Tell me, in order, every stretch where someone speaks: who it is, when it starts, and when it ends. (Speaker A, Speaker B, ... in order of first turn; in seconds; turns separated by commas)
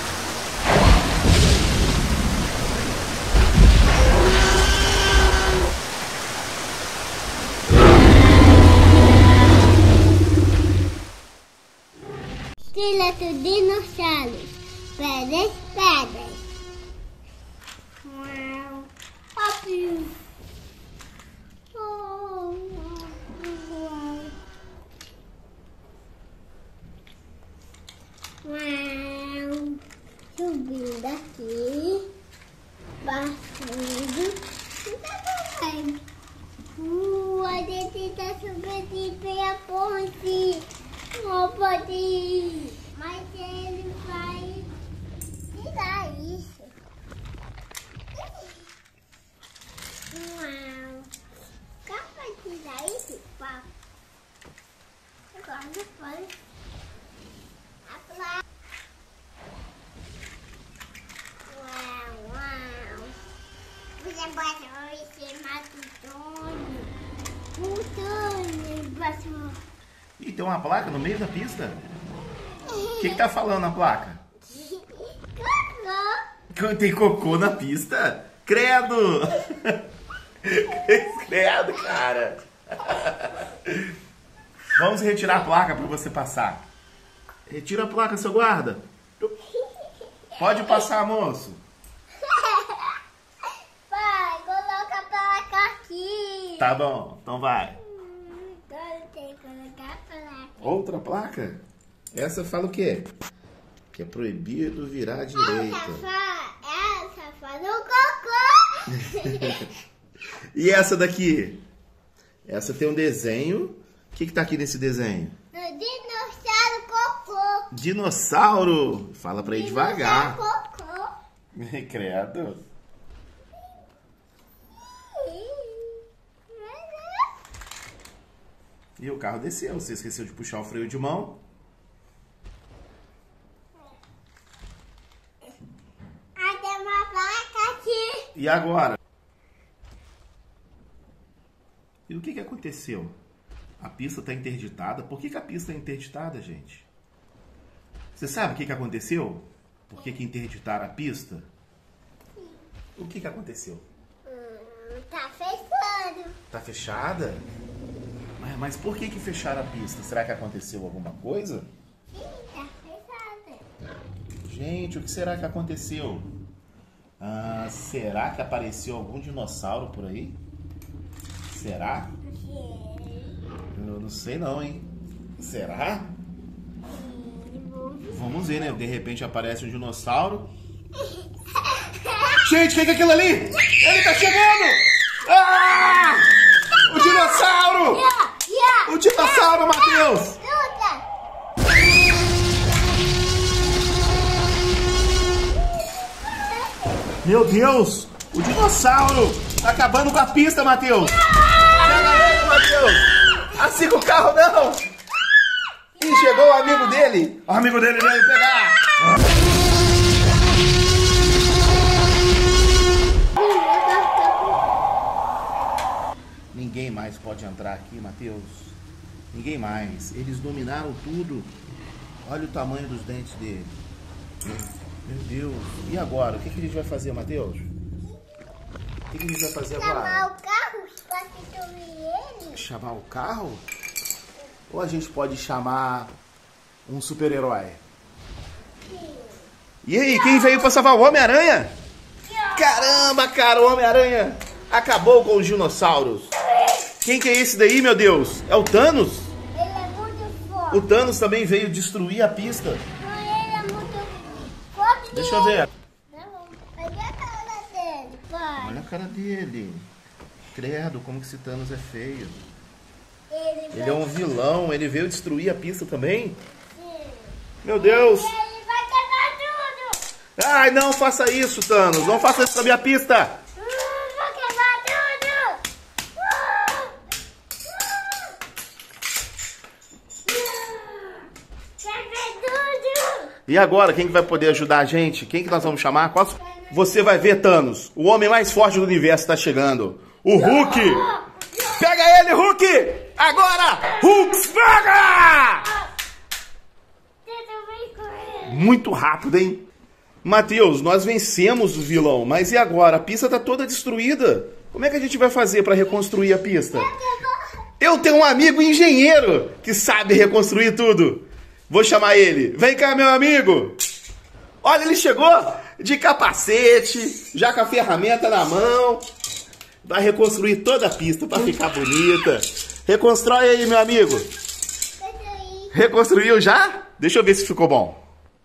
Speaker A: 12.7-16.4, Speaker A: 18.0-20.1, Speaker A: 21.7-24.3, Speaker A: 28.4-29.8, Speaker A: 30.3-32.1, Speaker A: 33.0-36.0, Speaker A: 36.7-44.7, Speaker A: 45.5-46.7, Speaker A: 48.1-48.5, Speaker A: 50.1-51.1, Speaker A: 51.8-53.7, Speaker A: 55.3-56.3, Speaker A: 57.8-58.4, Speaker A: 61.5-63.1, Speaker A: 64.0-66.9, Speaker A: 67.5-69.6, Speaker B: 70.2-72.0, Speaker A: 72.6-73.2, Speaker B: 73.0-74.2, Speaker A: 74.5-76.2, Speaker B: 76.5-79.8, Speaker B: 80.4-83.7, Speaker B: 84.7-86.7, Speaker B: 87.5-88.8, Speaker A: 89.5-90.9, Speaker B: 90.4-91.6, Speaker A: 92.2-93.0, Speaker A: 93.9-96.8, Speaker B: 96.6-97.8, Speaker A: 97.8-100.5, Speaker B: 100.6-101.6, Speaker B: 102.1-103.1, Speaker B: 103.9-106.0, Speaker A: 105.3-109.7, Speaker B: 109.0-109.7, Speaker B: 110.5-111.6, Speaker B: 112.5-115.3, Speaker A: 115.5-117.7, Speaker B: 117.7-120.4, Speaker A: 119.4-121.2, Speaker B: 121.5-122.6, Speaker A: 125.1-127.3, Speaker B: 129.0-131.4, Speaker A: 136.4-138.3, Speaker B: 138.3-139.0, Speaker B: 142.1-143.1, Speaker B: 143.8-146.9, Speaker B: 148.2-151.5, Speaker A: 152.4-152.6, Speaker B: 152.9-153.8, Speaker A: 154.2-156.4, Speaker B: 156.5-157.4, Speaker B: 158.4-161.7, Speaker A: 162.1-163.7, Speaker B: 164.4-166.3, Speaker B: 167.2-170.4, Speaker B: 171.5-172.1, Speaker A: 172.2-173.4, Speaker B: 173.7-176.1, Speaker A: 176.9-178.7, Speaker B: 178.1-180.5, Speaker A: 180.9-182.4, Speaker B: 182.4-188.0, Speaker A: 186.8-191.0, Speaker B: 188.8-190.4, Speaker A: 195.7-197.2, Speaker B: 197.2-201.2, Speaker A: 201.2-203.6, Speaker B: 201.8-204.8, Speaker A: 205.9-207.2, Speaker B: 206.0-209.2, Speaker A: 213.3-214.7, Speaker B: 216.5-218.8, Speaker B: 219.3-221.5, Speaker B: 222.2-223.7, Speaker B: 225.0-227.7, Speaker B: 229.1-230.3, Speaker A: 229.7-232.6, Speaker B: 232.5-233.6, Speaker B: 234.7-236.1, Speaker B: 236.8-237.8, Speaker A: 238.8-239.4, Speaker B: 239.8-241.7, Speaker A: 240.1-240.8, Speaker A: 242.2-243.1, Speaker B: 242.5-246.3, Speaker B: 247.0-249.3, Speaker A: 249.5-250.9, Speaker B: 250.7-252.8, Speaker A: 253.0-258.8, Speaker B: 255.2-255.7, Speaker B: 258.6-259.9, Speaker B: 260.5-262.4, Speaker A: 263.3-264.3, Speaker B: 263.7-266.4, Speaker A: 266.7-270.0, Speaker B: 267.6-268.3, Speaker B: 270.4-273.4, Speaker A: 273.6-275.6, Speaker A: 276.1-276.9, Speaker A: 277.6-278.3, Speaker A: 280.2-281.3, Speaker A: 281.8-283.3, Speaker B: 283.5-291.0, Speaker A: 286.6-286.9, Speaker A: 290.3-291.8, Speaker B: 291.6-295.7, Speaker A: 294.0-294.3, Speaker A: 297.2-298.7, Speaker B: 298.5-299.6, Speaker B: 300.2-306.9, Speaker A: 306.7-307.6, Speaker B: 307.8-313.8, Speaker B: 314.6-319.0, Speaker B: 319.8-324.3, Speaker A: 325.0-325.8, Speaker B: 325.7-328.0